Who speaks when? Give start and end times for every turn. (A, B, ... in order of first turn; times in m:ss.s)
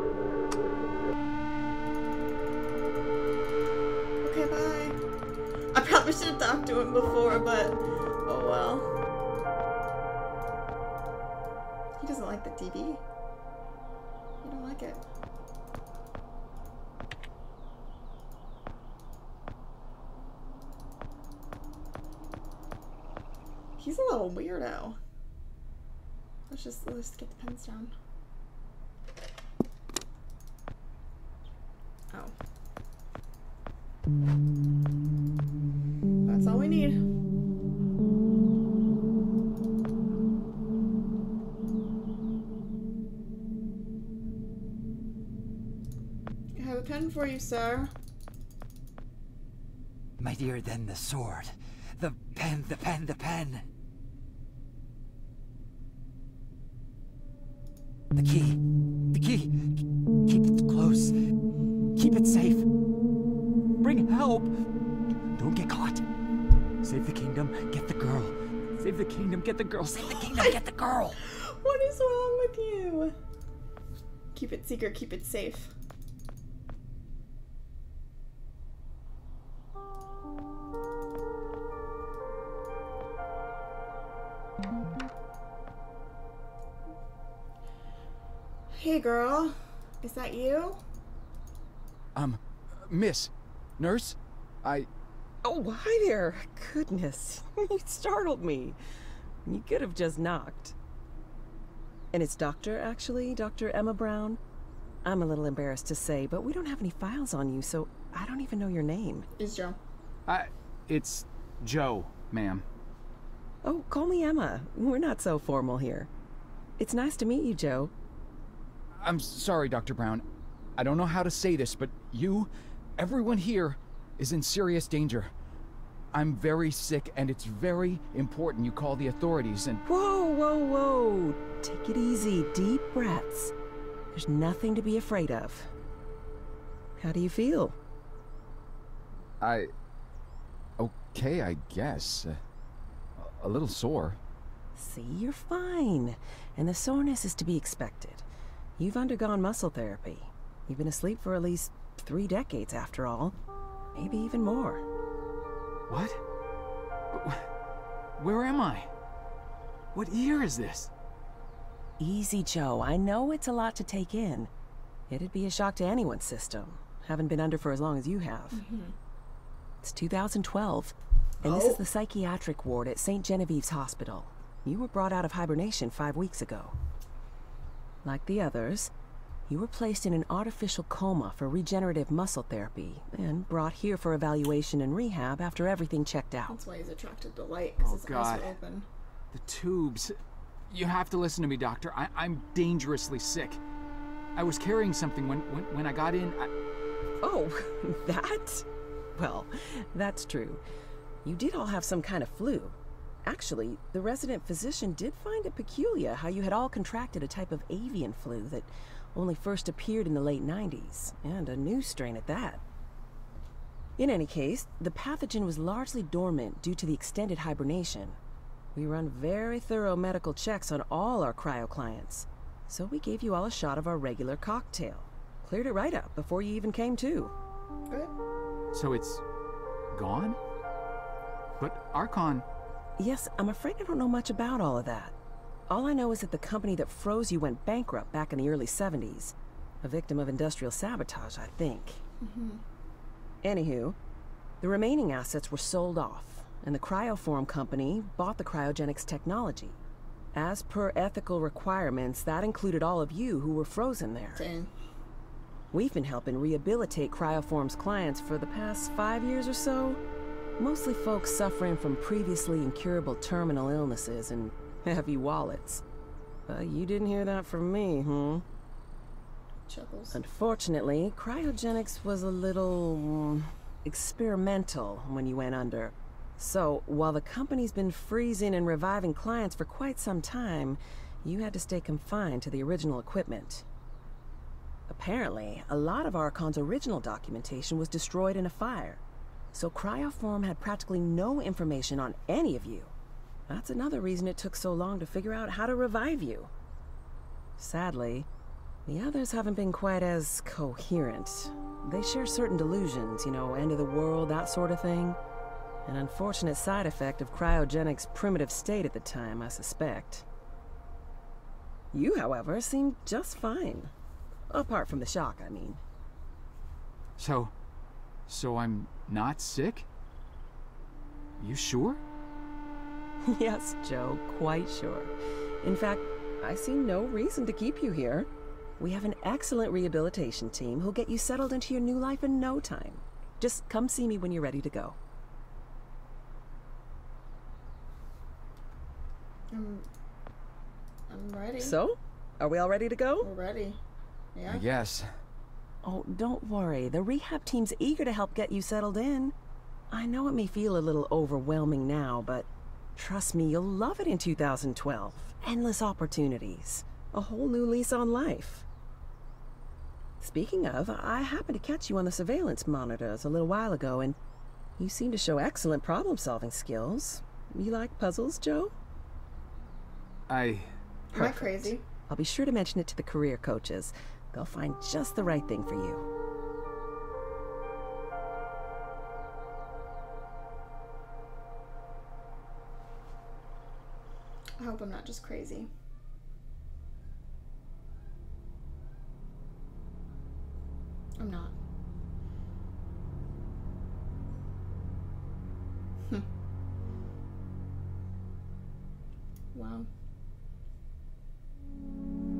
0:04.2-0:05.0 A
0:05.7-0:08.9 A
0:12.0-0:13.0 A
0:14.4-0:15.0 A
0:23.8-0:25.0 A
0:26.5-0:27.9 A
0:36.2-0:37.0 A
0:46.5-0:47.9 A
0:50.2-0:53.6 B
0:58.1-0:58.6 B
0:59.1-0:59.5 B
1:00.3-1:01.1 B
1:02.0-1:02.6 B
1:03.8-1:04.5 B
1:05.4-1:06.0 B
1:06.8-1:11.2 B
1:11.2-1:13.1 A
1:14.3-1:15.7 A
1:28.7-1:30.8 A
1:32.1-1:34.9 C
1:35.4-1:38.8 D
1:39.4-1:40.8 D
1:42.1-1:44.4 D
1:45.0-1:49.3 D
1:49.4-1:49.8 A
1:50.2-1:52.6 C
1:53.6-1:56.1 D
1:56.8-1:57.9 D
1:59.0-2:00.2 C
2:00.8-2:05.3 C
2:06.1-2:09.8 C
2:09.8-2:13.5 D
2:14.1-2:15.7 D
2:17.0-2:17.8 D
2:19.4-2:19.7 C
2:20.8-2:22.4 C
2:23.2-2:24.2 C
2:24.7-2:28.3 D
2:28.8-2:33.4 D
2:33.9-2:34.8 D
2:35.9-2:36.2 C
2:37.1-2:37.4 C
2:38.2-2:38.9 C
2:39.9-2:40.9 C
2:42.0-2:44.5 D
2:45.1-2:48.6 D
2:48.5-2:48.9 A
2:49.8-2:56.7 D
2:51.4-2:51.8 A
2:58.0-2:58.9 D
2:59.5-3:06.6 D
3:06.5-3:08.9 A
3:07.8-3:08.5 C
3:09.3-3:10.2 C
3:10.7-3:13.6 C
3:14.3-3:16.5 C
3:17.2-3:20.6 D
3:21.2-3:32.6 D
3:34.0-3:38.2 D
3:38.7-3:47.3 D
3:48.7-3:49.2 C
3:49.9-3:50.4 C
3:51.6-3:52.4 C
3:53.0-3:55.1 D
3:55.7-4:02.0 D
4:02.2-4:02.6 A
4:03.4-4:04.0 D
4:04.6-4:09.8 D
4:10.3-4:14.5 D
4:14.4-4:14.7 A
4:15.7-4:20.0 D
4:20.6-4:25.8 D
4:26.5-4:28.4 D
4:29.7-4:30.2 A
4:30.1-4:43.6 D
4:44.9-4:49.0 D
4:49.5-4:52.9 D
4:53.5-4:56.5 D
4:57.6-4:58.3 D
4:58.8-5:05.2 D
5:05.8-5:10.2 D
5:11.9-5:13.9 D
5:14.5-5:15.8 D
5:17.2-5:17.5 C
5:18.3-5:19.9 C
5:21.4-5:22.0 C
5:23.3-5:35.0 D
5:39.5-5:39.8 A
5:41.1-5:41.8 A
5:41.6-5:43.3 D
5:43.2-5:43.8 A
5:44.3-5:44.6 A
5:44.4-5:45.0 C
5:45.8-5:49.3 D
5:49.9-5:58.6 D
6:00.2-6:04.2 D
6:04.8-6:08.7 D
6:10.3-6:10.7 C
6:11.1-6:11.8 A
6:11.1-6:16.0 D
6:24.6-6:25.7 A
6:31.2-6:31.6 A
6:39.5-6:39.9 A